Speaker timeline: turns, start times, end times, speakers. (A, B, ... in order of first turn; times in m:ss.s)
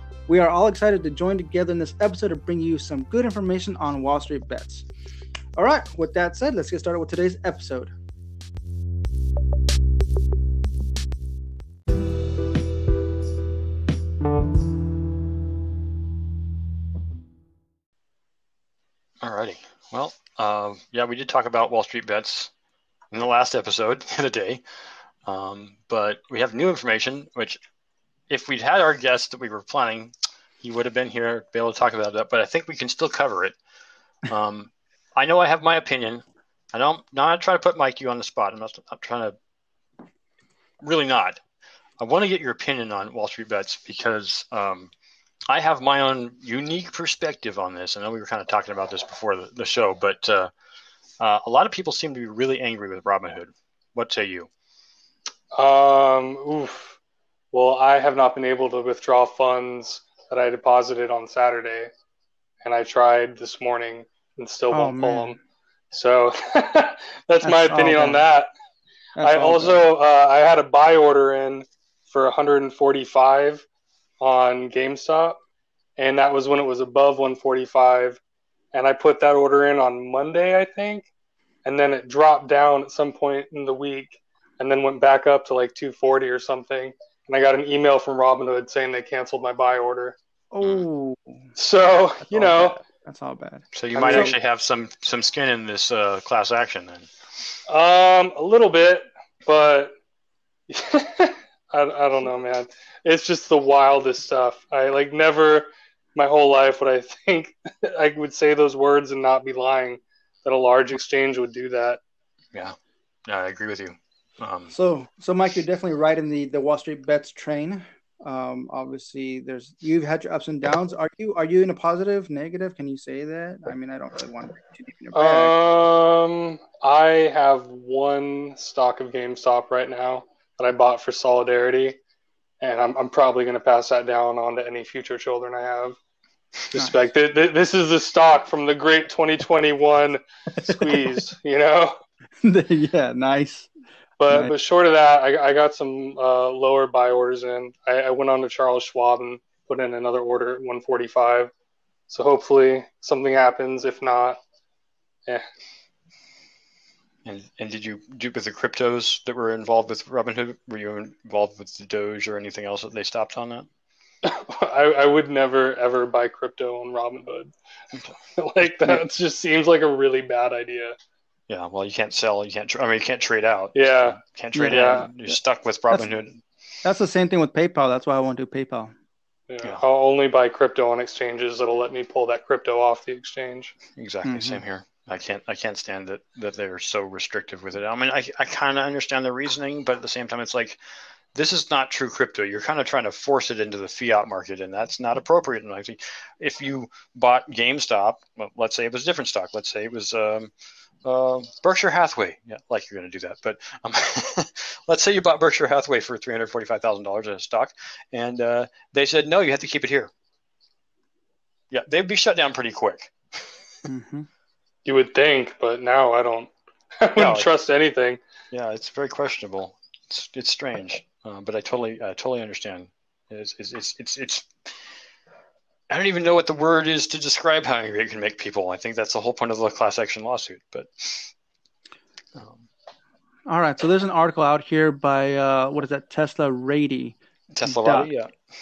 0:00.3-0:04.8 A
0:05.6-0:07.9 A
0:19.2-0:22.5 B
0:23.1-0:24.6 B
0:25.2-0:27.6 B
0:28.3-0:33.6 B
0:34.3-0:39.3 B
0:40.8-0:41.4 B
0:42.0-0:44.9 B
0:45.5-0:50.5 B
0:51.2-0:54.5 B
0:55.5-0:57.0 C
0:57.5-1:01.9 C
1:02.6-1:05.4 C
1:04.7-1:05.4 A
1:05.9-1:08.5 C
1:07.4-1:08.2 A
1:09.2-1:09.8 A
1:09.2-1:13.6 C
1:14.2-1:15.4 C
1:16.0-1:18.2 C
1:18.7-1:21.1 C
1:21.6-1:30.2 C
1:30.5-1:31.4 A
1:31.6-1:32.8 C
1:32.3-1:34.3 A
1:33.7-1:37.1 B
1:33.9-1:34.3 C
1:37.7-1:39.9 C
1:40.7-1:52.0 C
1:52.5-1:54.7 B
1:54.7-2:05.5 A
2:05.1-2:12.0 C
2:12.6-2:16.0 C
2:16.7-2:22.0 C
2:20.6-2:21.2 A
2:22.4-2:23.7 A
2:24.2-2:31.5 C
2:32.1-2:34.4 C
2:37.2-2:43.7 B
2:44.2-2:47.5 C
2:48.4-2:50.9 C
2:51.5-2:56.4 B
2:53.7-2:55.1 C
2:54.5-2:55.3 A
2:56.8-2:58.9 A
2:59.5-3:03.7 C
3:04.0-3:10.8 B
3:04.2-3:04.6 A
3:11.3-3:20.5 B
3:21.0-3:30.1 B
3:31.7-3:33.6 B
3:33.8-3:34.3 A
3:34.8-3:38.2 C
3:37.1-3:37.5 B
3:38.5-3:44.7 B
3:45.9-3:51.3 B
3:52.3-3:52.7 B
3:53.5-3:58.1 A
3:57.5-3:58.3 B